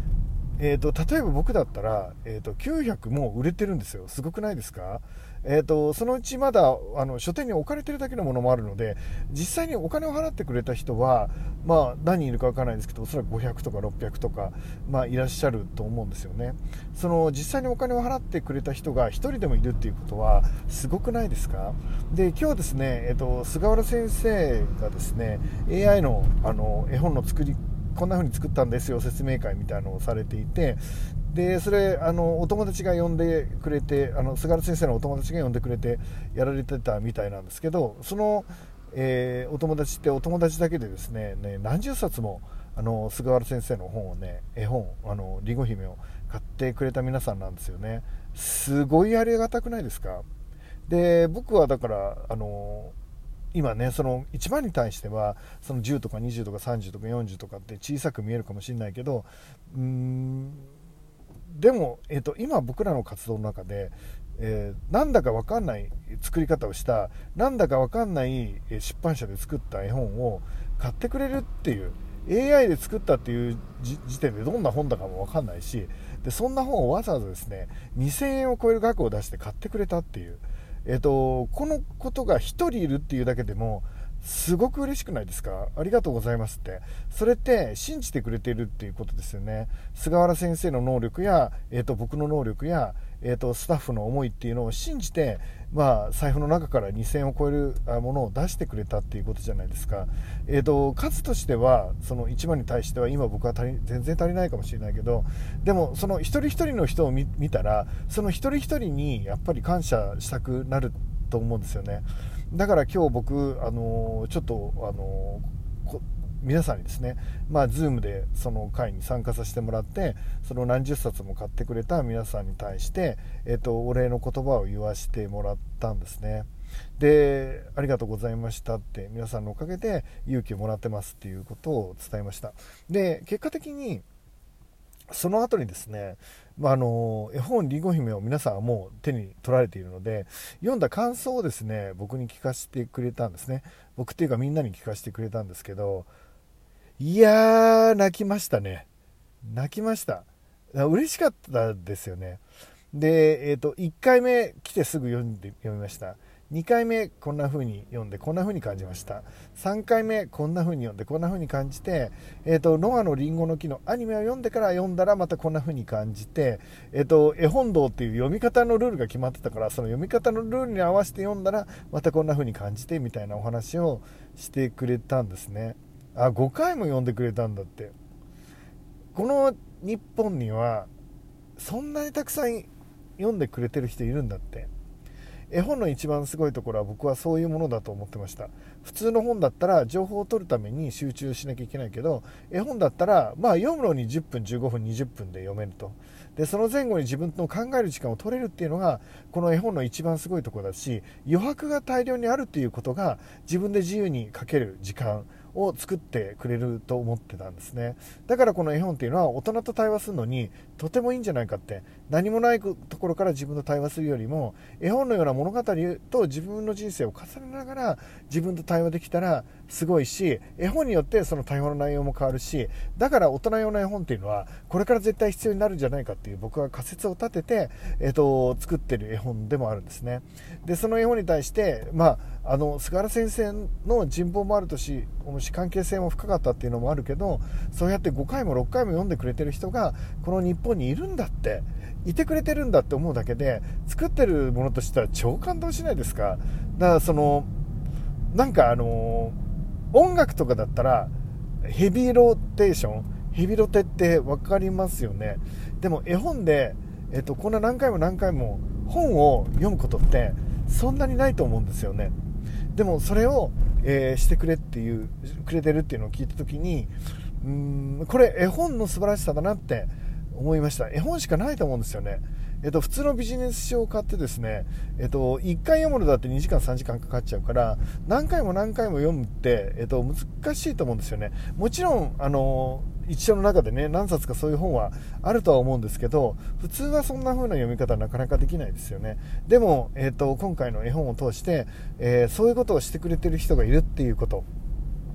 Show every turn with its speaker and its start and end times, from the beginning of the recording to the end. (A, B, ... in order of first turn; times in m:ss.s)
0:00.6-0:50.3 A
0:50.9-0:53.0 A
0:53.5-1:00.7 A
1:01.5-2:14.0 A
2:15.1-2:26.1 A
2:27.0-2:28.9 A
2:29.4-2:32.4 A
2:32.9-2:57.9 A
2:59.2-3:00.9 A
3:01.6-3:04.7 A
3:05.5-4:07.5 A
4:08.3-4:09.4 A
4:09.9-4:22.2 A
4:22.7-4:54.5 A